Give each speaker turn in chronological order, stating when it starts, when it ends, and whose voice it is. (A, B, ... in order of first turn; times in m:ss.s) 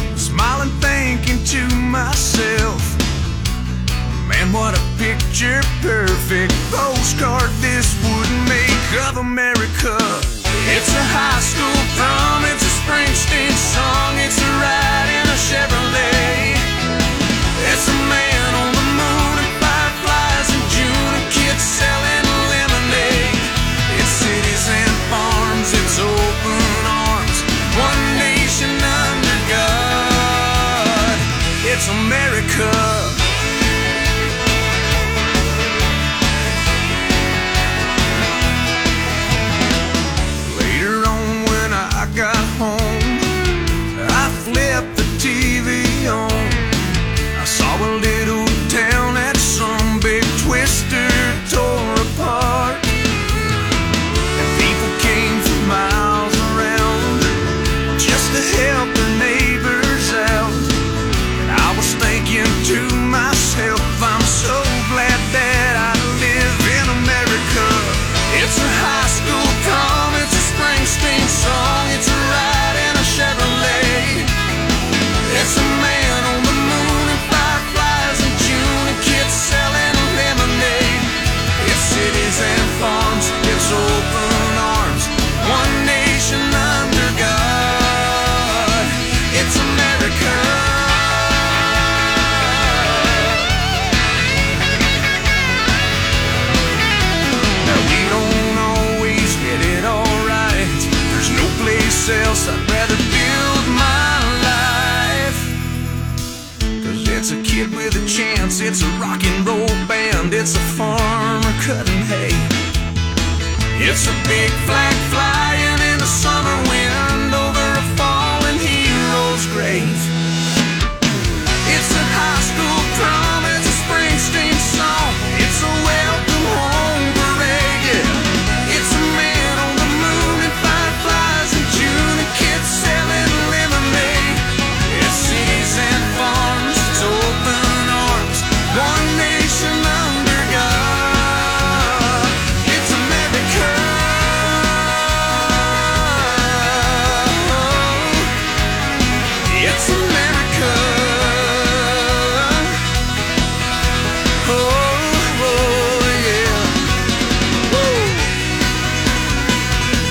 0:00.1-0:03.0 A
0:04.1-0:16.7 A
0:17.6-0:33.2 A
0:40.4-0:43.3 A
0:43.9-0:46.7 A
0:47.4-0:52.9 A
0:54.4-0:57.4 A
0:58.0-1:00.7 A
1:01.4-1:14.3 A
1:15.2-1:31.4 A
1:32.8-1:33.4 A
1:37.6-1:45.5 A
1:46.8-1:52.5 A
1:53.8-2:00.1 A
2:01.6-2:28.3 A
2:29.5-2:32.8 A
2:34.4-2:36.7 A
2:37.7-2:38.3 A